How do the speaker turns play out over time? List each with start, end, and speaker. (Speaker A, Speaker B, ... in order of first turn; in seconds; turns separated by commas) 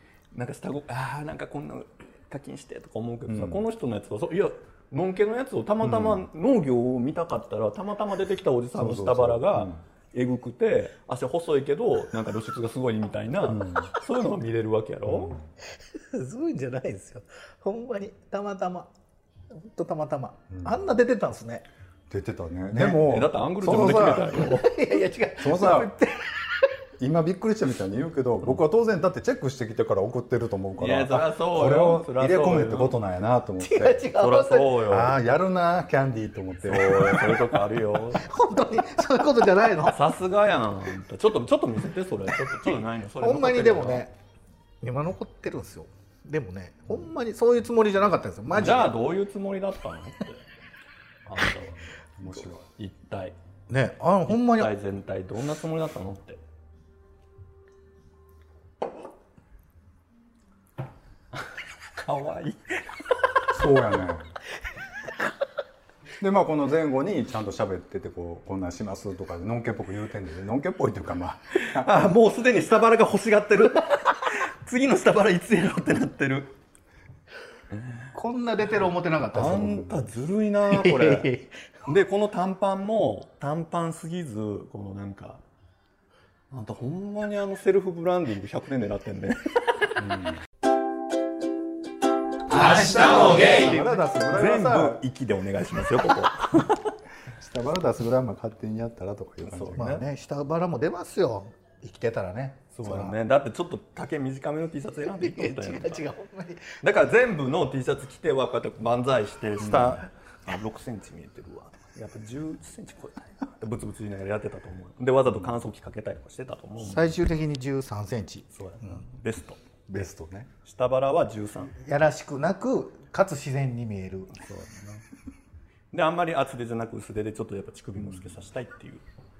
Speaker A: 0.3-15.4, Speaker B: 3.3-3.6, Speaker B: 5.8-6.2, Speaker B: 8.7-9.8, Speaker B: 13.5-13.9, Speaker B: 15.1-15.4, Speaker C: 15.9-18.9, Speaker C: 19.5-21.6, Speaker B: 20.5-20.8, Speaker B: 22.1-24.2, Speaker A: 22.7-24.7, Speaker C: 23.6-26.3, Speaker B: 25.4-25.9, Speaker B: 27.0-34.0, Speaker A: 30.8-33.0, Speaker C: 33.6-34.8, Speaker A: 34.1-35.2, Speaker B: 34.9-37.7, Speaker A: 36.6-38.2, Speaker C: 38.1-40.0, Speaker A: 39.8-44.0, Speaker C: 43.2-44.1, Speaker C: 44.8-48.9, Speaker A: 48.5-50.4, Speaker A: 51.3-53.4, Speaker B: 52.2-52.6, Speaker C: 53.7-54.7, Speaker A: 54.3-56.4, Speaker A: 62.0-63.1, Speaker B: 63.5-64.3, Speaker B: 66.2-71.9, Speaker A: 71.6-76.5, Speaker A: 77.7-78.1, Speaker C: 78.1-79.9, Speaker A: 79.3-81.3, Speaker C: 80.7-81.5, Speaker A: 81.8-85.4, Speaker A: 86.5-89.9, Speaker B: 90.0-90.4, Speaker C: 93.1-93.6, Speaker A: 93.1-96.9, Speaker B: 93.4-95.0, Speaker B: 97.3-100.0, Speaker A: 99.4-100.0, Speaker C: 99.8-103.2, Speaker A: 102.7-106.0, Speaker C: 105.2-106.8, Speaker A: 106.8-117.2, Speaker B: 109.6-110.0, Speaker C: 116.8-119.0, Speaker A: 118.5-119.6, Speaker B: 119.9-120.5, Speaker A: 120.6-121.7, Speaker C: 121.8-124.3, Speaker A: 124.4-125.0, Speaker A: 125.9-129.0